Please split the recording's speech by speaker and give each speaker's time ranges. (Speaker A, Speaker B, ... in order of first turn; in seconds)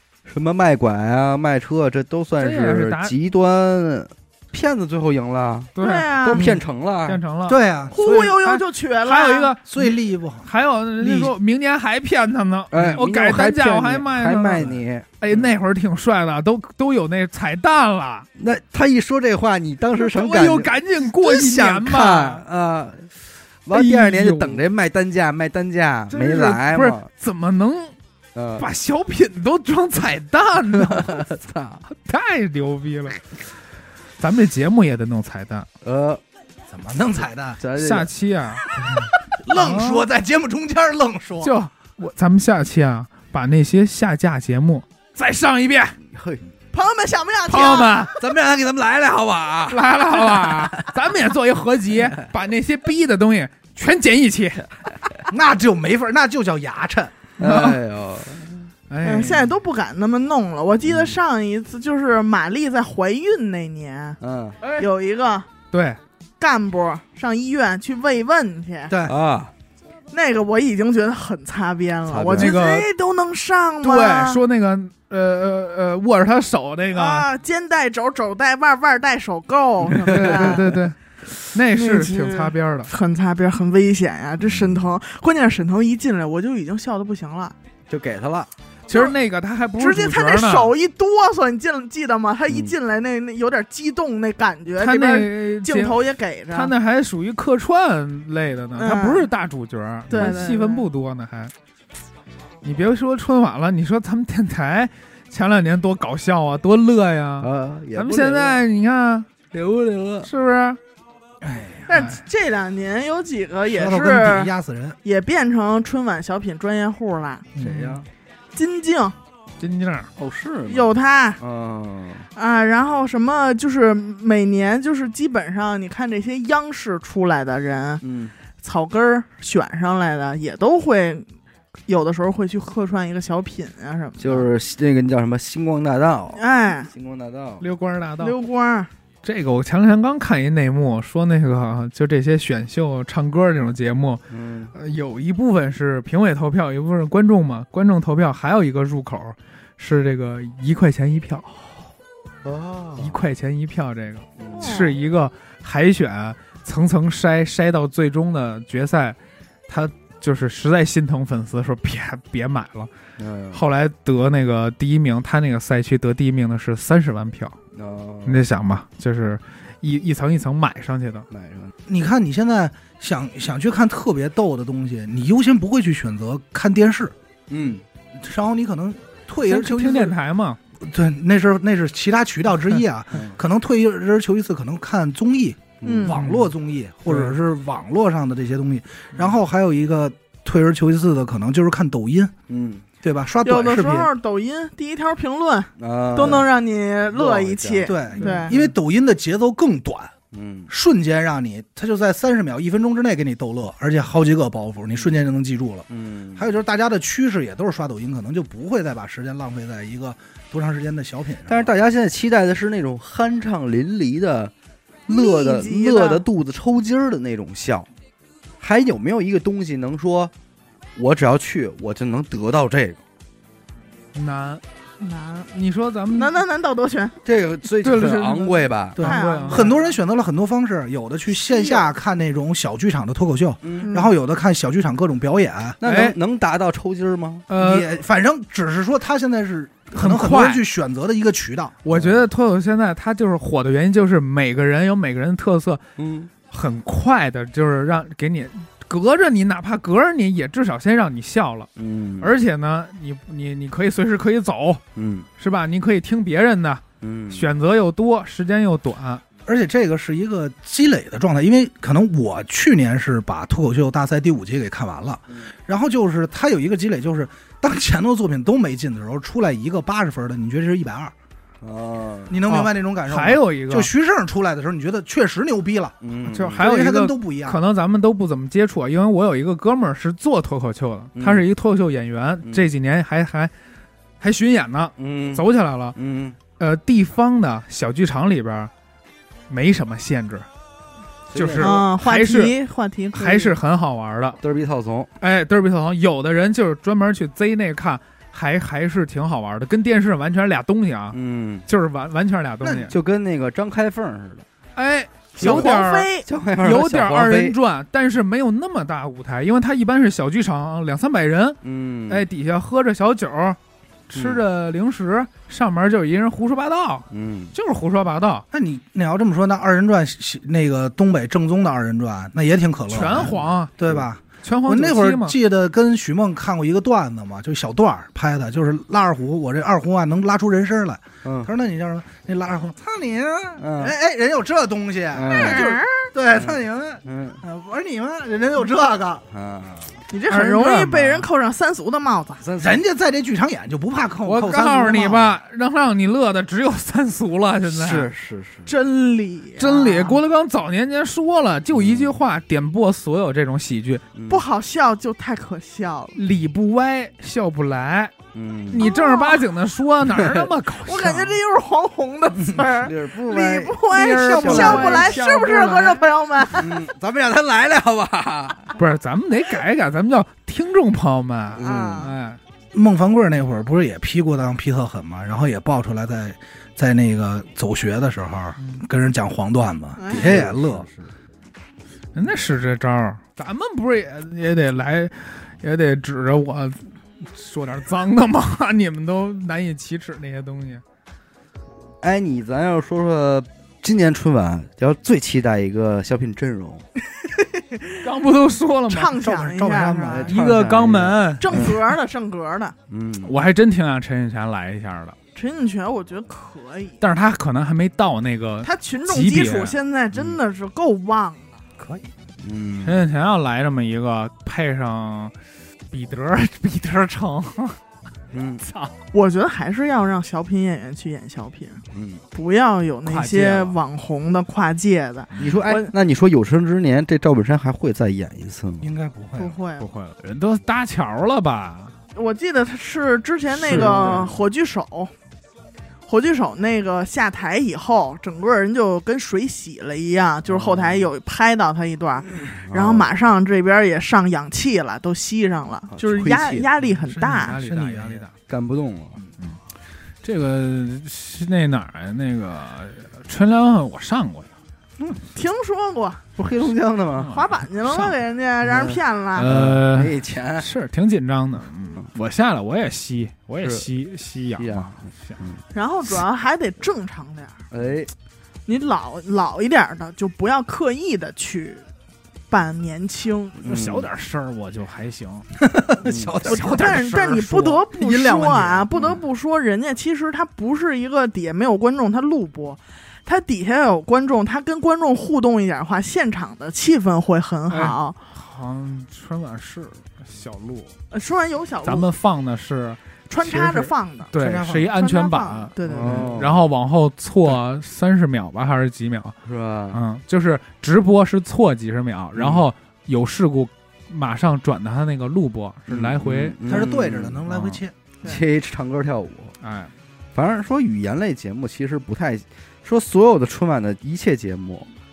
Speaker A: 0.2-7.2, 12.7-15.5, 18.4-23.1, 23.6-27.1, 28.3-28.7, 30.7-31.8, 35.8-36.2, 37.6-38.1, 46.1-46.4, 48.2-50.9, 51.9-52.2, 57.4-58.7, 60.8-61.1, 64.2-64.8, 69.0-69.5, 72.1-72.6, 80.1-80.6, 84.5-84.7, 87.9-88.5, 107.4-108.6, 109.5-110.3, 117.6-118.0, 120.2-122.3, 128.0-128.3, 134.2-137.6, 144.3-144.7, 152.4-153.2, 154.4-154.8, 163.2-163.6, 167.7-168.4, 171.3-171.7, 177.5-177.8, 185.8-186.2, 192.5-192.8, 195.8-196.5, 197.1-198.0, 200.3-200.7, 205.9-206.5, 211.4-214.5, 215.1-217.9, 218.6-220.3, 220.9-223.0, 227.2-229.0, 233.6-233.9, 235.8-237.5, 241.9-242.3, 246.0-246.3, 251.8-252.3, 254.9-255.3, 257.0-257.5, 271.6-272.4, 276.0-276.6, 281.1-281.5, 282.4-282.7, 285.0-286.4, 291.3-291.8, 294.4-295.1, 301.1-301.7, 302.9-304.4, 305.4-305.7, 306.2-307.6, 311.6-312.3, 314.1-314.4, 317.1-317.5, 323.0-324.0, 331.2-331.5, 333.6-333.9, 335.1-335.7, 336.3-337.4, 339.3-339.9, 342.4-342.8, 347.6-348.7, 351.7-352.2, 354.1-354.4, 358.3-358.9, 360.1-360.5, 362.7-365.1, 366.5-368.7, 371.5-372.1, 380.1-381.1, 392.0-396.9, 400.1-401.8, 402.9-403.4, 410.1-410.4, 412.4-413.0, 418.3-418.6, 421.9-422.2, 425.4-428.9, 433.6-434.3, 440.4-441.1, 442.5-443.1, 445.9-446.7, 448.5-449.2, 456.4-457.3, 458.6-460.7, 463.6-463.9, 464.5-465.6, 467.7-468.1, 473.6-474.1, 476.0-476.4, 495.8-496.6, 499.4-500.0, 502.3-502.6, 505.9-507.4, 508.2-509.6, 510.3-514.9
Speaker B: 2.4-3.1, 5.8-6.1, 7.0-18.3, 20.0-22.4, 23.7-24.6, 26.1-27.9, 28.6-31.2, 31.9-33.3, 34.2-35.7, 37.8-38.7, 39.5-40.0, 41.4-46.0, 47.5-48.2, 49.7-54.7, 57.4-57.8, 58.9-59.5, 65.7-66.0, 72.3-72.9, 73.8-77.2, 80.0-81.0, 81.5-82.9, 88.9-90.7, 94.8-96.0, 96.5-101.5, 102.6-109.3, 110.2-110.8, 119.6-120.1, 137.6-138.3, 139.2-144.2, 144.7-151.6, 153.0-159.2, 159.7-162.9, 163.5-167.6, 168.2-171.3, 179.4-180.6, 186.1-186.5, 198.2-198.6, 224.1-224.6, 225.5-226.4, 227.8-229.7, 235.8-236.1, 237.5-237.9, 240.0-240.6, 241.8-245.8, 246.5-251.7, 252.2-254.8, 255.4-259.2, 272.5-273.9, 276.3-283.5, 284.2-285.9, 286.6-288.7, 289.5-290.5, 291.3-292.5, 293.1-294.4, 295.2-302.9, 304.7-306.1, 306.6-313.6, 314.1-318.4, 322.9-323.7, 324.4-325.4, 340.3-341.3, 344.2-348.1, 349.6-354.0, 356.1-358.1, 358.7-361.4, 363.9-366.0, 368.8-372.4, 382.1-390.8, 398.0-399.1, 400.3-401.8, 403.2-405.2, 407.0-409.8, 412.8-415.3, 415.9-417.8, 418.6-418.9, 423.0-423.8, 429.8-431.9, 446.2-448.3, 450.2-454.5, 457.2-458.1, 459.3-465.4, 473.6-475.5, 476.4-477.8, 487.7-490.9, 491.8-499.3, 499.9-506.8, 507.5-507.8, 509.6-509.9
Speaker C: 5.8-6.5, 7.9-9.5, 46.7-48.1, 59.0-64.2, 64.8-65.5, 66.4-68.9, 70.1-74.4, 76.9-80.7, 81.7-87.5, 88.9-89.2, 89.8-96.7, 98.8-99.3, 100.1-100.9, 111.9-114.5, 115.0-117.5, 118.5-119.2, 120.7-121.4, 122.3-128.0, 128.6-131.3, 131.9-134.5, 136.3-136.9, 138.2-138.9, 154.6-155.0, 185.8-186.2, 193.4-198.5, 215.1-216.2, 225.0-225.5, 226.1-227.2, 229.0-229.9, 231.4-231.8, 233.8-234.1, 291.6-293.6, 305.4-306.3, 335.3-336.1, 340.1-342.4, 348.6-350.2, 354.3-356.2, 358.8-359.4, 360.8-366.7, 371.6-372.1, 379.9-380.5, 397.3-398.0, 398.9-400.3, 401.4-402.7, 405.3-407.0, 408.6-411.6, 419.1-421.8, 422.3-425.9, 429.4-429.9, 432.1-435.1, 436.1-447.6, 455.3-456.2, 457.3-459.5, 465.7-467.6, 468.7-471.9, 472.5-473.6, 476.4-488.2, 491.1-492.1, 493.3-494.3, 494.9-496.4
Speaker D: 6.4-6.6, 7.5-8.3, 9.7-11.3, 36.7-37.6, 39.4-41.5, 55.3-57.1, 68.9-69.1, 111.4-112.1, 113.7-115.0, 117.5-118.0, 171.9-177.1, 178.1-180.1, 180.8-192.3, 193.0-194.1, 197.8-200.1, 200.7-211.7, 228.9-235.8, 237.5-241.8, 259.4-271.1, 272.3-277.6, 302.6-302.9, 318.5-339.2, 342.6-345.4, 364.1-365.1, 372.7-380.9, 399.1-400.4, 411.8-412.1, 428.8-429.6, 447.6-448.2, 475.6-478.9, 494.4-494.9, 506.6-507.9